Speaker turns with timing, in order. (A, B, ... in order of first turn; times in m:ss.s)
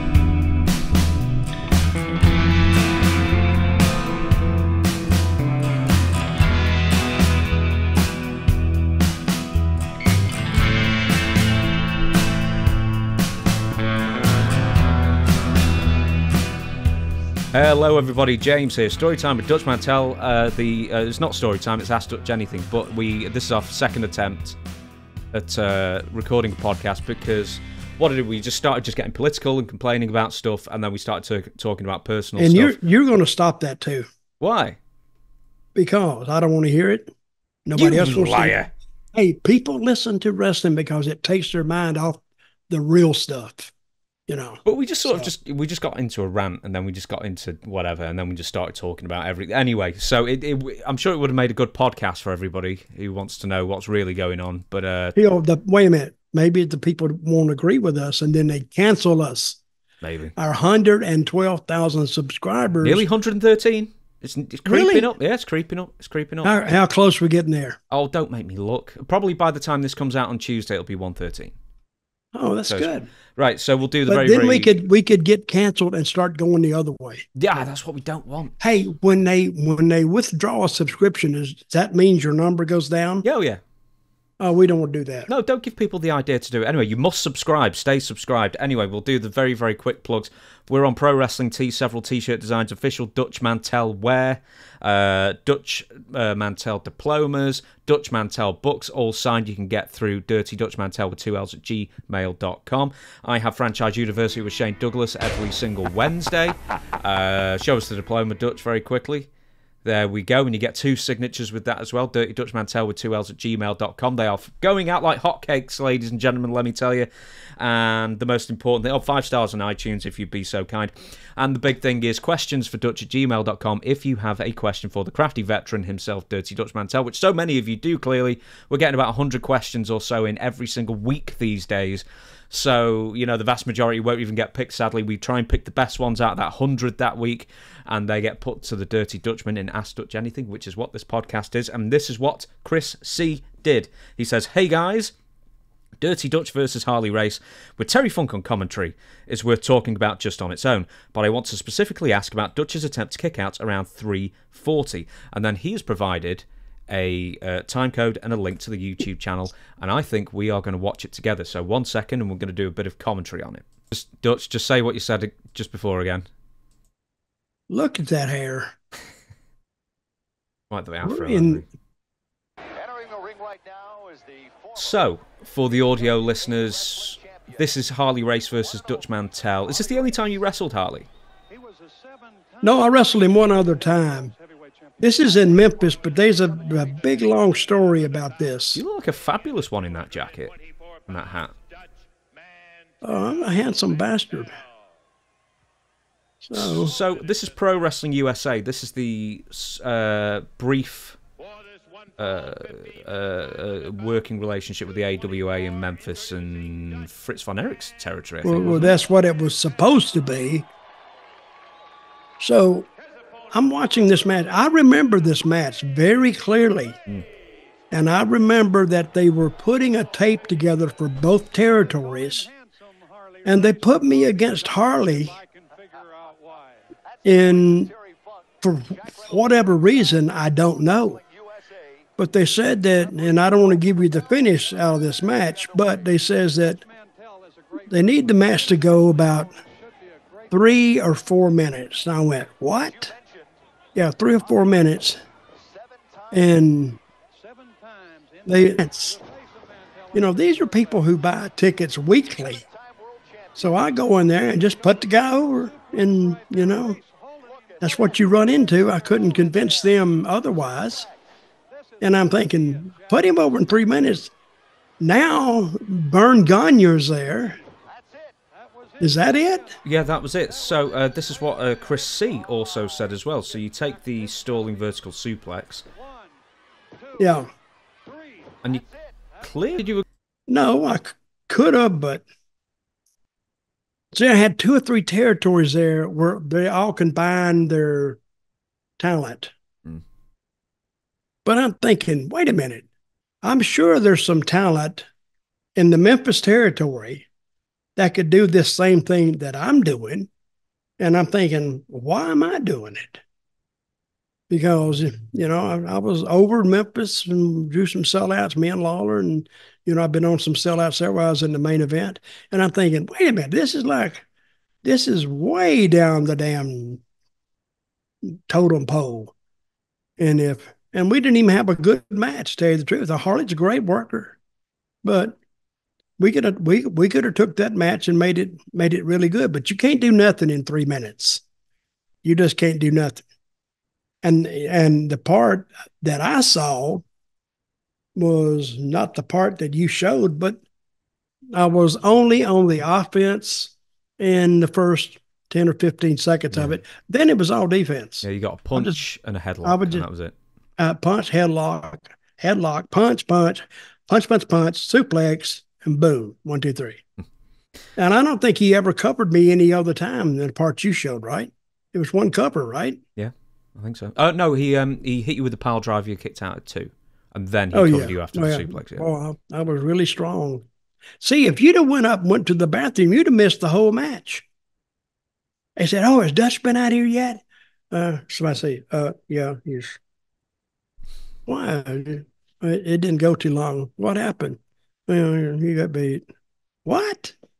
0:17.5-0:24.6 A
0:25.3-0:32.8 A
0:32.4-0:34.1 B
0:34.4-0:34.8 A
0:35.8-0:37.1 B
0:37.7-0:38.6 B
0:37.8-0:38.7 A
0:39.2-0:43.7 B
0:44.3-0:45.3 B
0:44.6-0:55.2 A
0:55.2-0:59.6 B
1:00.0-1:00.4 A
1:00.4-1:03.1 B
1:02.8-1:06.5 A
1:04.7-1:05.1 B
1:06.4-1:07.8 B
1:07.9-1:11.6 A
1:12.3-1:13.1 B
1:12.7-1:14.8 A
1:14.1-1:17.3 B
1:17.4-1:18.6 A
1:18.6-1:23.2 B
1:23.2-1:23.6 A
1:24.4-1:25.3 B
1:25.3-1:49.3 A
1:49.8-2:25.1 A
2:26.0-2:46.3 A
2:47.7-2:48.7 B
2:50.7-2:51.7 A
2:51.0-2:51.6 B
2:52.7-2:54.9 C
2:54.8-3:01.1 A
2:56.0-2:57.6 C
2:59.5-3:00.2 C
3:01.5-3:08.3 C
3:02.6-3:04.3 B
3:05.0-3:08.8 B
3:08.8-3:10.5 A
3:10.3-3:11.0 C
3:11.1-3:11.5 A
3:12.3-3:13.6 C
3:13.0-3:14.5 B
3:16.4-3:16.9 B
3:16.5-3:21.2 A
3:21.5-3:22.2 C
3:22.2-3:28.9 A
3:28.4-3:30.7 B
3:32.4-3:32.9 B
3:33.5-3:37.0 B
3:37.9-3:42.5 B
3:43.4-3:49.7 C
3:43.4-3:45.4 B
3:47.2-3:47.9 B
3:48.6-3:51.2 B
3:51.2-3:51.8 C
3:52.2-3:56.8 B
3:55.4-3:56.2 C
3:56.8-3:58.2 C
3:57.9-3:59.6 B
4:00.0-4:00.5 C
4:00.5-4:03.1 B
4:03.1-4:03.5 C
4:04.0-4:05.2 B
4:05.8-4:06.3 C
4:06.3-4:07.0 B
4:07.7-4:10.8 C
4:08.5-4:09.2 B
4:10.1-4:12.6 B
4:12.6-4:13.6 C
4:13.6-4:17.0 B
4:16.8-4:18.2 C
4:17.8-4:21.1 B
4:19.2-4:19.8 C
4:22.0-4:24.3 B
4:25.0-4:27.6 B
4:27.8-4:29.4 C
4:29.0-4:29.7 B
4:29.8-4:35.8 A
4:37.0-4:37.4 C
4:37.2-4:37.5 B
4:38.1-4:38.9 C
4:39.4-4:40.0 A
4:40.5-4:42.3 B
4:44.1-4:48.2 B
4:49.0-4:49.5 B
4:51.4-4:52.9 B
4:53.4-4:55.1 B
4:55.8-4:57.3 B
4:58.0-5:00.3 B
5:01.0-5:03.2 B
5:04.5-5:14.2 B
5:14.8-5:17.0 B
5:18.2-5:19.3 B
5:20.2-5:24.4 B
5:25.0-5:25.4 B
5:26.2-5:31.4 B
5:32.2-5:33.2 B
5:34.2-5:37.0 B
5:38.2-5:40.6 B
5:41.5-5:49.0 B
5:46.5-5:46.8 A
5:48.2-5:50.3 A
5:49.6-5:50.0 B
5:50.8-5:57.0 B
5:58.0-6:03.0 B
6:03.2-6:09.0 A
6:07.7-6:10.6 B
6:11.2-6:14.4 B
6:15.8-6:20.0 B
6:21.5-6:26.3 B
6:26.8-6:27.4 B